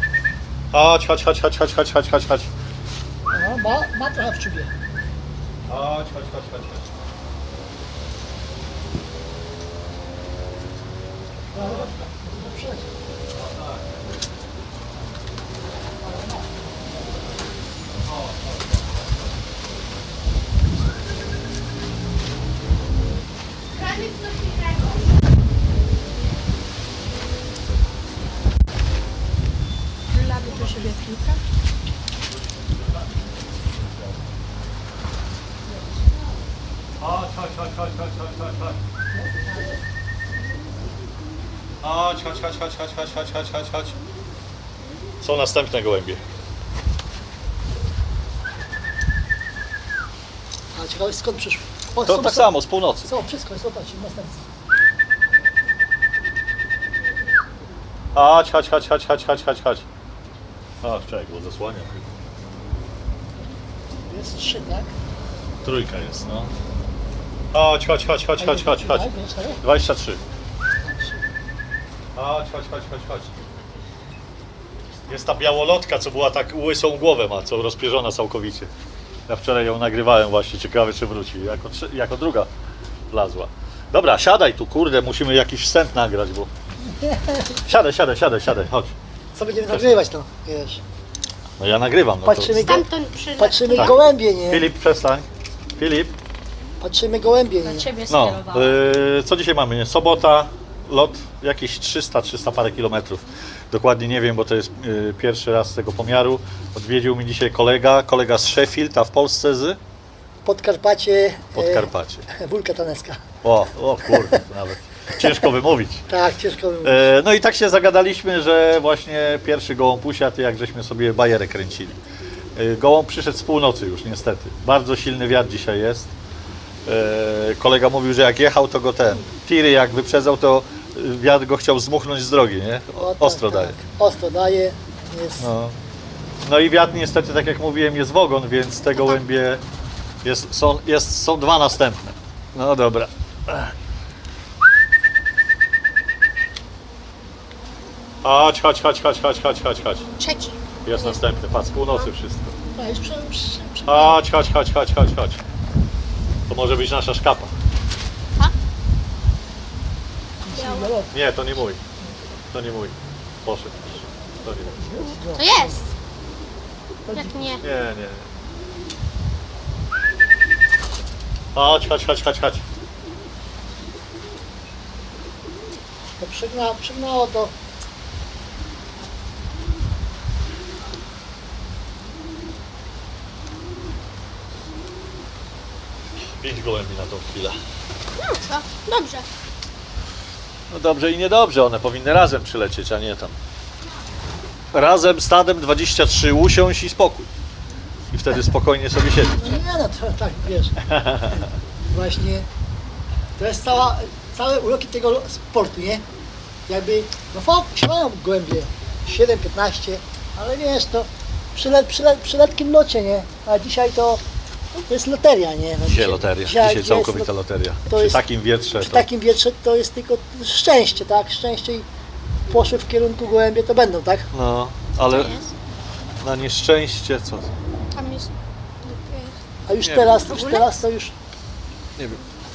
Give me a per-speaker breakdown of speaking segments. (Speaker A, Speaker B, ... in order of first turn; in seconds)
Speaker A: 0.7-2.5, 5.7-6.9, 11.5-12.1, 13.3-14.2, 18.0-19.1, 30.4-30.8, 32.2-34.3, 37.0-38.8, 41.8-44.0, 45.2-46.2, 52.0-53.1, 58.1-59.9, 60.8-62.1, 65.6-66.5, 67.5-70.2, 72.2-73.3, 75.1-78.7, 79.3-82.5, 83.1-86.5, 87.6-89.0, 89.7-90.0, 91.6-92.8, 93.7-96.2, 98.1-109.8, 111.5-112.3, 113.4-116.1, 116.8-122.0, 122.6-126.2, 126.9-133.8, 135.4-135.8, 136.4-139.6, 140.2-143.7, 148.2-150.1, 150.8-152.6, 153.9-155.4, 156.5-157.6, 161.1-161.8, 162.5-164.8, 167.6-168.3, 171.5-172.6, 186.2-187.6, 190.7-193.4, 194.7-197.3, 198.1-199.5, 200.9-201.5, 215.8-219.1, 224.3-225.4, 226.2-227.5, 229.8-230.2, 232.0-232.2
Speaker B: 3.3-4.7, 11.5-12.9, 16.0-16.9, 39.1-39.8, 50.7-54.5, 64.1-65.0, 68.4-69.6, 70.8-71.3, 86.9-87.5, 89.3-90.8, 92.2-92.9, 93.4-94.7, 96.8-97.9, 110.5-113.2, 114.2-114.4, 115.2-115.5, 116.1-117.1, 133.0-135.5, 152.8-154.2, 160.4-161.2, 164.7-165.8, 167.1-167.6, 176.2-177.5, 199.4-200.8, 201.9-202.5, 203.4-206.1, 206.7-214.2, 214.8-217.3, 217.9-218.3, 218.8-221.9, 222.5-224.3, 229.7-231.2
Speaker C: 23.8-25.0, 92.6-94.0, 150.2-151.2, 160.5-161.0, 165.0-165.9, 167.1-167.6, 188.2-189.3, 225.1-225.6, 227.9-229.4, 230.2-230.7
Speaker D: 30.1-31.4, 97.6-98.8